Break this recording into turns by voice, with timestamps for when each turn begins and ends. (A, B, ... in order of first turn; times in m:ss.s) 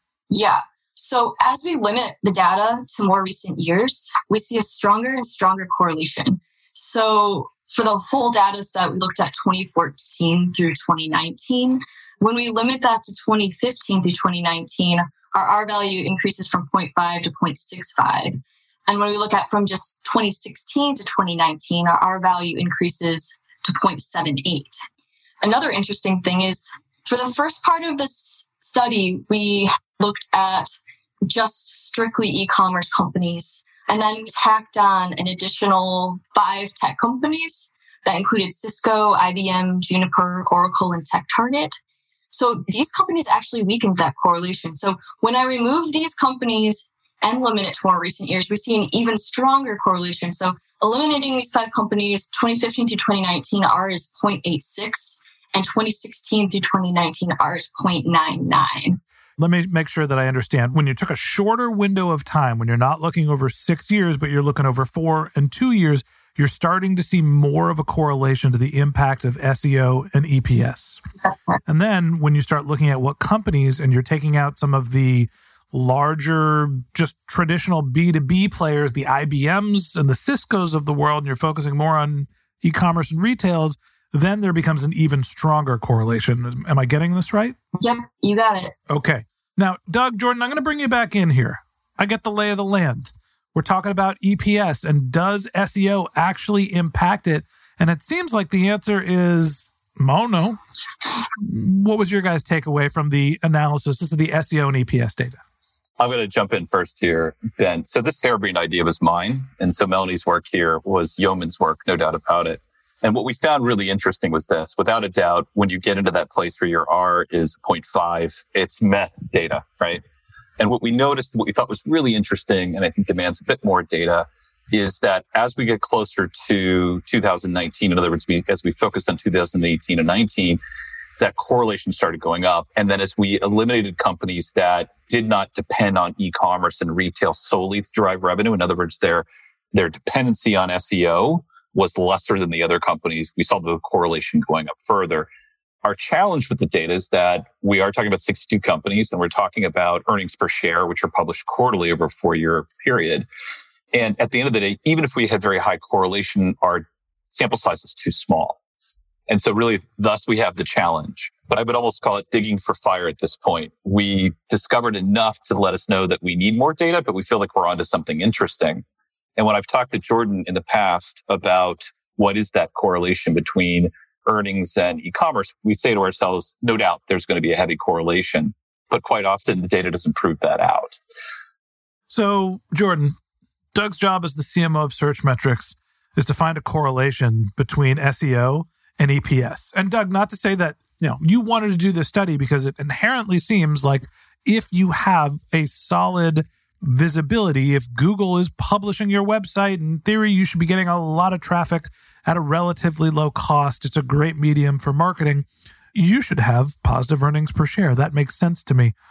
0:00.3-0:24.8 A
0:25.4-0:30.7 A
0:31.3-0:41.8 A
0:42.3-0:59.0 A
0:59.4-1:11.0 B
1:11.2-1:11.6 A
1:11.7-1:27.6 B
1:27.8-1:28.7 A
1:28.9-1:40.6 B
1:41.4-1:45.4 B
1:46.0-2:00.0 C
2:00.6-2:10.6 C
2:11.2-2:25.3 C
2:25.8-2:33.3 C
2:33.9-2:38.6 C
2:39.3-2:48.8 C
2:49.4-3:01.0 C
3:02.1-3:03.2 B
3:03.7-3:28.9 B